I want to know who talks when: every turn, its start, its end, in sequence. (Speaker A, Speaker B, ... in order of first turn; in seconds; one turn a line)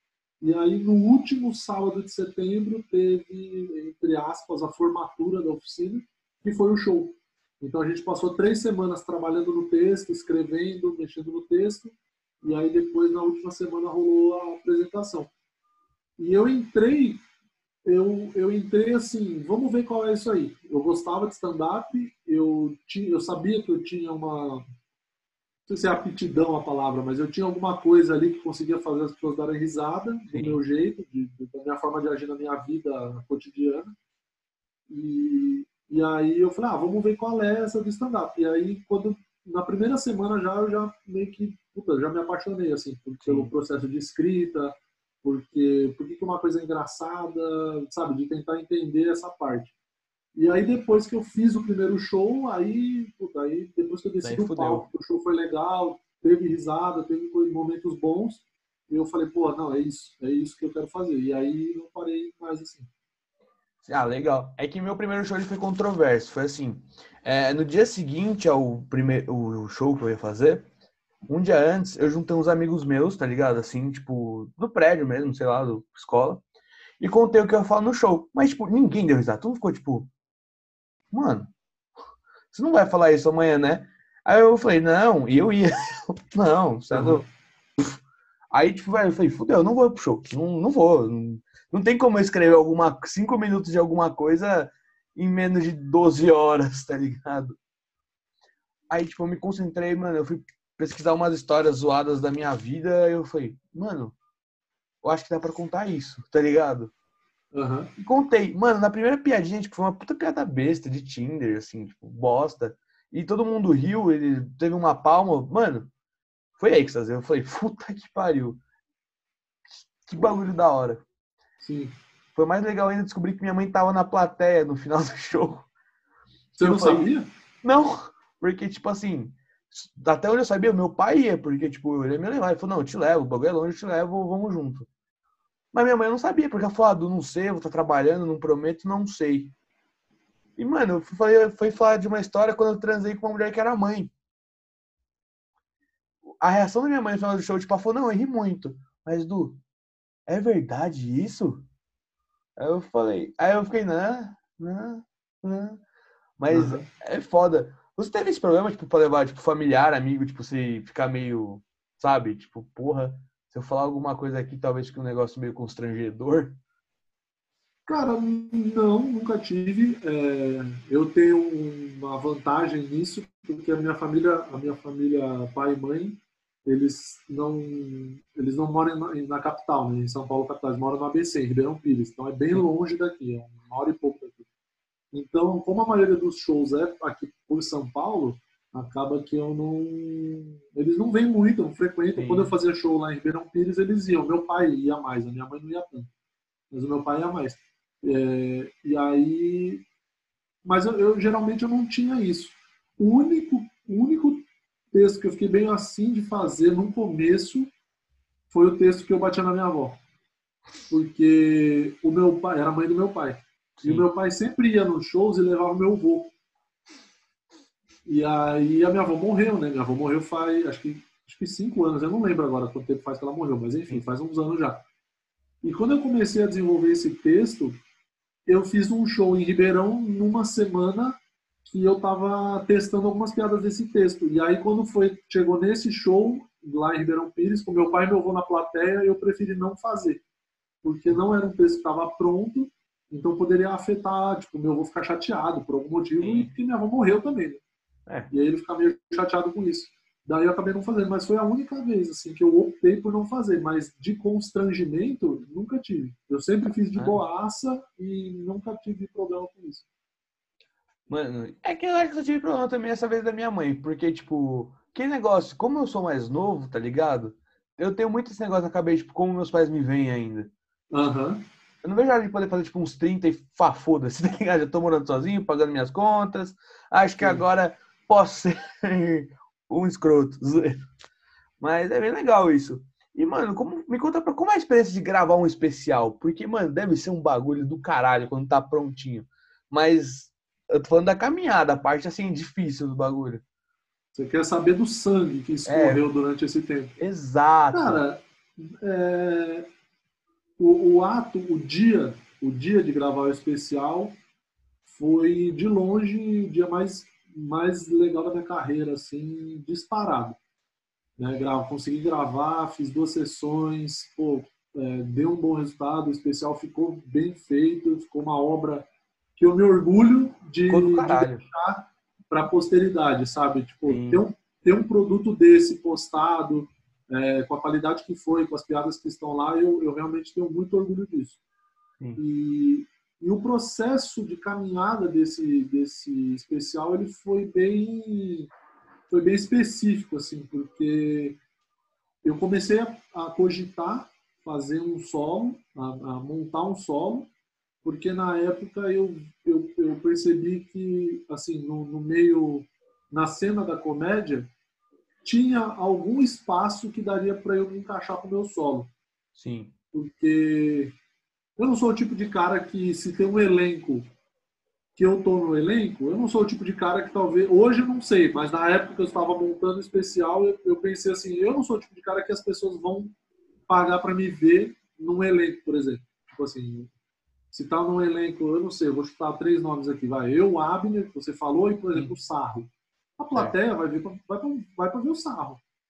Speaker A: 0.4-15.3
Speaker A: 16.2-17.2
Speaker A: 17.9-24.6
Speaker A: 25.7-33.9
Speaker B: 30.3-30.6
Speaker A: 34.9-49.7
Speaker B: 43.2-43.5
Speaker A: 50.4-62.9
Speaker B: 54.2-54.9
Speaker B: 63.8-70.7
Speaker B: 71.3-76.4
Speaker B: 77.0-80.1
Speaker B: 81.1-81.5
Speaker B: 82.5-87.2
Speaker A: 86.9-87.3
Speaker B: 88.5-97.6
Speaker B: 98.9-104.2
Speaker B: 105.0-106.9
Speaker A: 107.5-107.9
Speaker B: 108.0-115.9
Speaker B: 116.6-118.6
Speaker B: 120.0-121.0
Speaker A: 121.6-121.9
Speaker B: 122.4-125.7
Speaker A: 126.6-127.3
Speaker B: 126.6-127.1
Speaker B: 127.6-134.9
Speaker B: 135.7-139.5
Speaker B: 140.6-144.1
Speaker B: 146.4-149.6
Speaker B: 150.3-151.7
Speaker B: 152.6-155.8
Speaker B: 156.4-166.6
Speaker A: 156.5-156.9
Speaker A: 167.9-184.4
Speaker A: 185.1-196.1
Speaker B: 192.2-192.5
Speaker A: 196.7-199.8
Speaker A: 200.7-207.7
Speaker A: 208.5-210.0
Speaker A: 210.9-216.3
Speaker B: 213.8-214.1
Speaker A: 218.1-224.8
Speaker A: 225.6-227.8
Speaker A: 228.5-240.2
Speaker A: 240.8-247.6
Speaker B: 246.2-246.5
Speaker A: 248.3-259.9
Speaker B: 261.1-270.5
Speaker A: 270.9-271.4
Speaker B: 271.8-280.8
Speaker A: 277.2-277.4
Speaker B: 281.6-293.4
Speaker A: 294.1-297.0
Speaker B: 295.7-296.1
Speaker B: 297.0-298.0
Speaker A: 297.7-299.7
Speaker A: 300.6-304.1
Speaker A: 304.9-310.4
Speaker A: 311.2-331.4
Speaker B: 320.7-321.4
Speaker B: 323.9-324.2
Speaker A: 332.2-338.5
Speaker A: 339.1-341.4
Speaker A: 342.2-347.3
Speaker A: 347.8-354.5
Speaker A: 355.2-358.9
Speaker B: 359.4-359.7
Speaker A: 359.9-360.9
Speaker A: 361.6-364.1
Speaker A: 365.0-373.1
Speaker A: 373.7-376.9
Speaker A: 377.5-385.6